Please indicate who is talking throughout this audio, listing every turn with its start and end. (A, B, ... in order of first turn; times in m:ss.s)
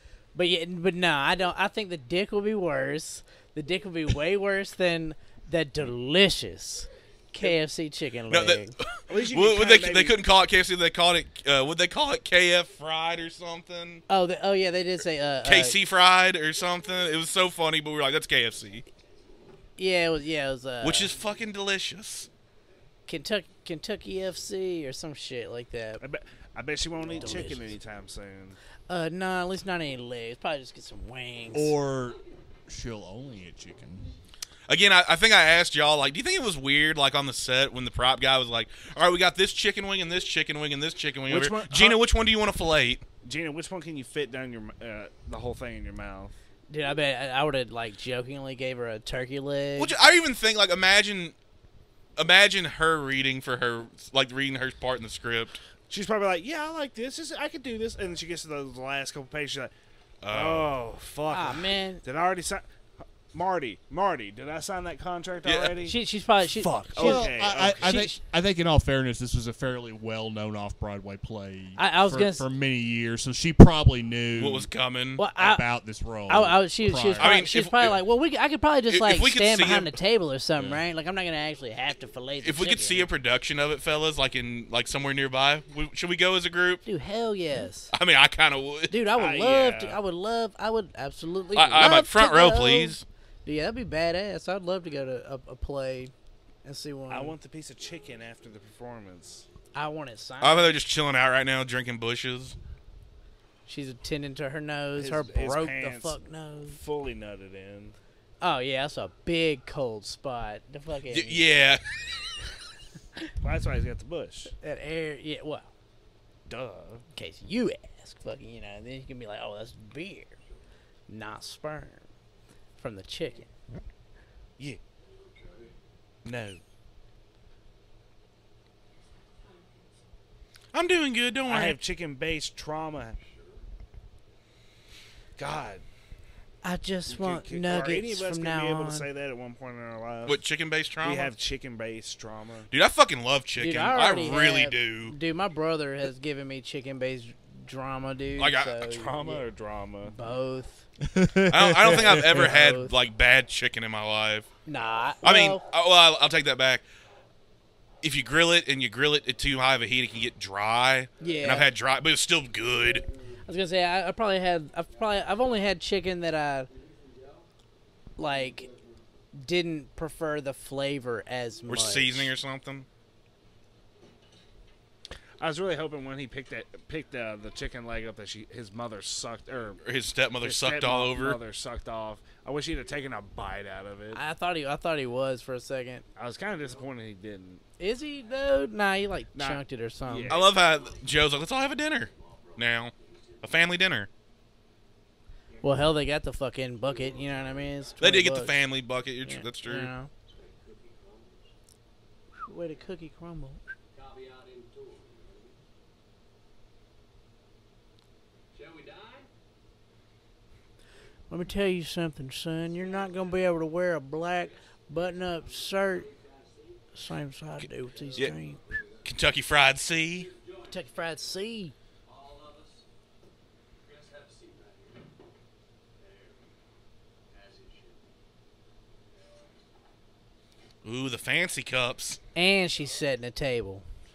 0:00.4-0:08.8 A
0:08.3-0:14.0 B
0:09.1-0:10.2 C
0:14.1-0:15.8 A
0:15.4-0:18.8 B
0:19.8-0:21.1 A
0:20.8-0:22.3 B
0:23.1-0:26.0 A
0:26.0-0:28.6 C
0:27.1-0:27.7 A
0:28.9-0:31.8 A
0:31.5-0:34.1 D
0:34.7-0:43.0 B
0:41.3-0:42.0 C
0:43.2-0:46.3 C
0:46.7-0:50.0 A
0:49.8-0:51.4 B
0:52.2-0:55.6 B
0:55.9-0:59.7 C
1:00.2-1:00.7 B
1:00.3-1:02.6 C
1:01.3-1:02.0 A
1:03.3-1:07.9 C
1:05.4-1:05.7 B
1:05.8-1:08.2 A
1:07.0-1:14.7 D
1:11.8-1:12.4 A
1:14.4-1:15.2 B
1:15.2-1:15.6 A
1:15.4-1:17.4 D
1:16.3-1:23.1 A
1:17.2-1:18.0 B
1:18.9-1:20.0 B
1:22.4-1:26.8 B
1:26.9-1:27.9 A
1:27.9-1:28.9 B
1:28.9-1:36.1 A
1:29.2-1:30.0 C
1:31.6-1:33.0 B
1:36.6-1:37.4 A
1:37.1-1:39.4 C
1:39.8-1:40.8 A
1:40.4-1:42.6 B
1:43.7-1:46.8 A
1:45.0-1:48.0 C
1:48.4-1:51.6 A
1:51.1-1:51.8 B
1:53.4-1:54.5 C
1:54.5-1:55.7 A
1:56.5-1:57.0 C
1:57.1-2:00.4 A
2:01.1-2:02.1 A
2:02.8-2:03.5 A
2:05.1-2:05.8 E
2:06.2-2:06.6 C
2:10.7-2:11.8 B
2:11.5-2:13.2 C
2:13.2-2:13.6 E
2:15.4-2:15.8 C
2:16.6-2:19.1 A
2:17.1-2:20.4 C
2:20.3-2:21.3 B
2:21.0-2:22.7 C
2:22.7-2:25.1 B
2:23.6-2:29.4 A
2:28.4-2:28.8 B
2:28.8-2:30.1 C
2:30.1-2:30.9 A
2:31.0-2:32.5 D
2:31.5-2:34.5 B
2:31.8-2:32.9 A
2:34.6-2:35.6 A
2:35.2-2:36.8 B
2:38.0-2:43.0 B
2:41.2-2:41.7 A
2:43.4-2:46.7 A
2:46.8-2:47.4 E
2:48.2-2:48.7 A
2:49.3-2:52.3 A
2:51.7-2:52.9 B
2:55.4-2:59.8 C
2:59.8-3:01.4 B
3:00.4-3:04.2 C
3:04.1-3:06.0 A
3:06.2-3:07.6 C
3:07.8-3:10.4 A
3:09.4-3:10.5 C
3:10.3-3:14.1 B
3:10.5-3:11.3 E
3:11.8-3:13.6 E
3:15.5-3:15.9 E
3:15.6-3:18.6 A
3:16.8-3:18.4 E
3:18.0-3:19.9 B
3:19.2-3:20.1 A
3:20.3-3:21.5 E
3:22.4-3:23.6 A
3:23.9-3:25.6 E
3:28.5-3:29.3 E
3:31.3-3:36.1 A
3:32.8-3:33.3 E
3:34.4-3:36.8 E
3:36.9-3:38.6 A
3:37.9-3:39.1 E
3:39.0-3:40.3 B
3:40.3-3:41.2 E
3:40.7-3:41.7 A
3:42.1-3:42.9 E
3:43.8-3:45.1 E
3:46.0-3:46.4 E
3:47.3-3:48.1 E
3:50.8-3:52.2 B
3:52.4-3:53.8 A